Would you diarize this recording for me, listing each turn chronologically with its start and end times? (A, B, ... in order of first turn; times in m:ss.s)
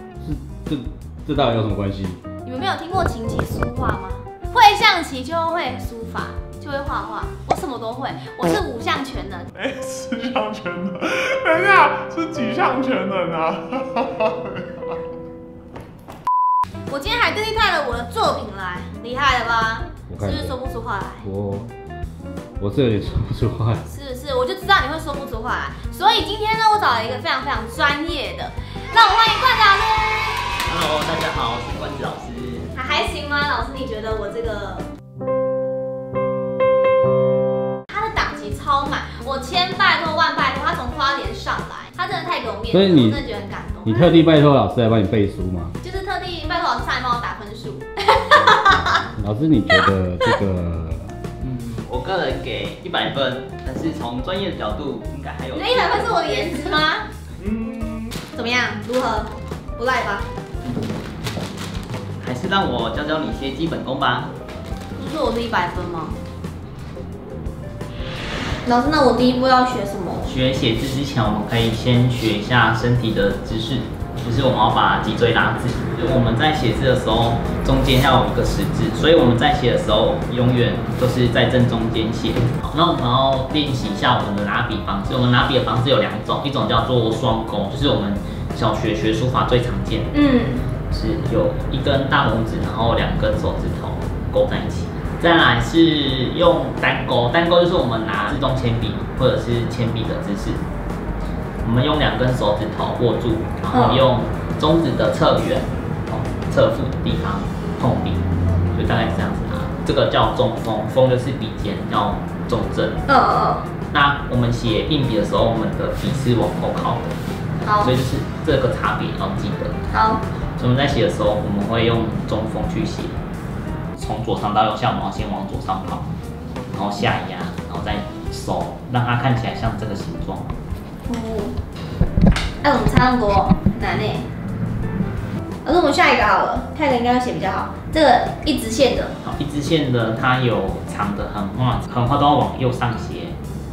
0:00.2-0:02.2 A
0:02.4-0:09.5 B
0:09.5-0:14.8 C
0:16.9-0:21.2 B
0:20.1-0:20.6 A
0:21.2-0:21.7 A
0:22.6-0:23.8 A
0:23.8-0:30.4 B
0:30.6-0:32.7 D
0:32.7-0:34.9 B
0:37.9-0:44.2 B
0:42.7-0:43.2 A
0:43.8-0:45.7 A
0:45.8-0:48.9 B
0:49.2-0:51.2 A
0:51.4-0:56.4 D
0:55.5-0:57.1 B
0:57.4-0:57.9 D
0:58.3-1:00.3 B
1:00.6-1:00.9 D
1:02.2-1:04.3 D
1:05.0-1:06.2 B
1:08.6-1:10.3 B
1:10.2-1:30.1 D
1:30.1-1:30.7 B
1:30.9-1:40.6 D
1:41.6-1:48.2 D
1:43.7-1:44.0 B
1:48.7-1:53.0 D
1:53.1-1:53.7 B
1:53.9-1:57.1 D
1:57.6-1:57.9 B
1:57.8-1:59.8 D
1:59.9-2:00.2 B
2:00.6-2:03.2 D
2:04.0-2:06.1 D
2:06.7-2:10.5 D
2:11.0-2:11.6 B
2:12.6-2:14.3 B
2:15.6-2:19.1 B
2:19.2-2:23.4 D